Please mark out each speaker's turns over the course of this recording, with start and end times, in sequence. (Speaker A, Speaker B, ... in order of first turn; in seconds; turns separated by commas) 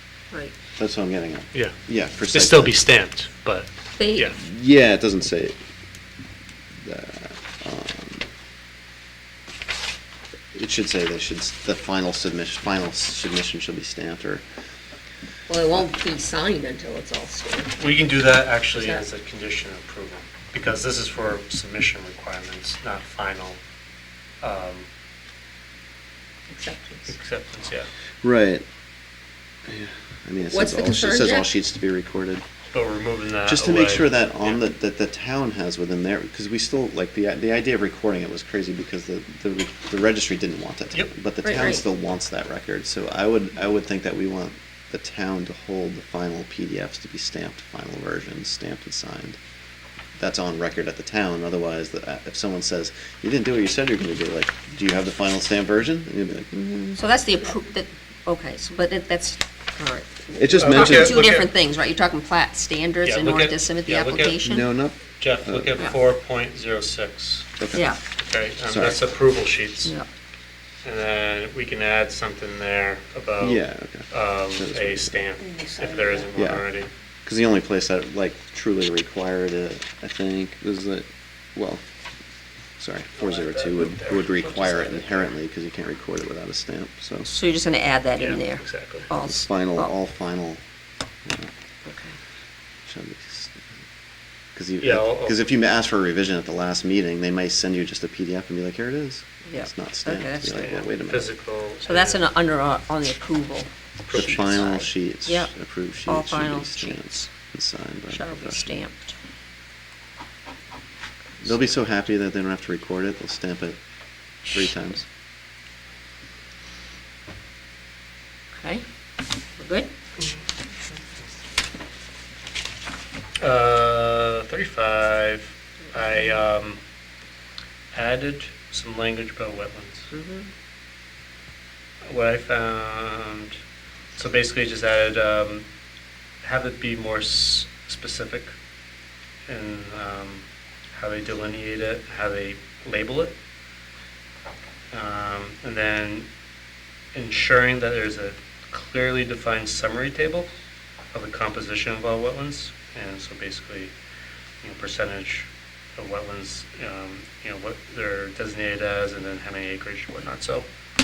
Speaker A: 0.3-0.6, Speaker B: 0.8-2.8, Speaker C: 2.3-4.4, Speaker A: 4.0-4.3, Speaker B: 4.4-5.5, Speaker B: 6.8-8.3, Speaker B: 10.5-14.4, Speaker A: 15.5-17.9, Speaker C: 17.8-23.6, Speaker A: 18.7-19.0, Speaker C: 24.4-24.9, Speaker A: 26.5-27.1, Speaker C: 27.1-27.9, Speaker B: 28.2-28.6, Speaker B: 29.6-32.4, Speaker A: 30.5-31.5, Speaker C: 32.7-34.6, Speaker B: 33.4-49.4, Speaker A: 41.4-41.8, Speaker B: 50.1-57.0, Speaker A: 57.0-64.7, Speaker B: 60.4-61.2, Speaker C: 60.6-61.5, Speaker C: 63.0-64.4, Speaker B: 64.4-65.8, Speaker C: 65.2-67.5, Speaker B: 67.6-67.9, Speaker A: 67.7-68.0, Speaker C: 68.2-69.9, Speaker B: 68.7-69.1, Speaker C: 70.8-76.9, Speaker B: 73.4-75.3, Speaker A: 75.6-76.2, Speaker B: 76.3-76.7, Speaker B: 77.2-81.8, Speaker B: 82.8-87.3, Speaker C: 83.2-85.3, Speaker A: 87.2-89.9, Speaker C: 88.2-89.1, Speaker B: 89.2-90.6, Speaker B: 91.2-91.5, Speaker A: 91.8-92.2, Speaker B: 92.9-93.7, Speaker B: 94.5-101.3, Speaker C: 94.8-95.5, Speaker A: 99.5-100.7, Speaker C: 100.5-102.2, Speaker A: 101.8-105.5, Speaker C: 104.0-104.7, Speaker B: 104.1-108.7, Speaker A: 106.0-107.2, Speaker A: 108.1-109.1, Speaker B: 111.4-113.8, Speaker B: 114.5-115.1, Speaker A: 118.5-118.8, Speaker A: 119.6-119.9, Speaker C: 123.4-126.8, Speaker A: 126.0-126.3, Speaker C: 127.9-130.1, Speaker A: 130.1-130.5, Speaker C: 132.0-133.6, Speaker C: 134.2-135.6, Speaker C: 136.4-138.5, Speaker C: 139.5-143.4, Speaker C: 144.9-146.3, Speaker C: 147.1-150.5, Speaker C: 151.1-153.9, Speaker C: 154.6-160.7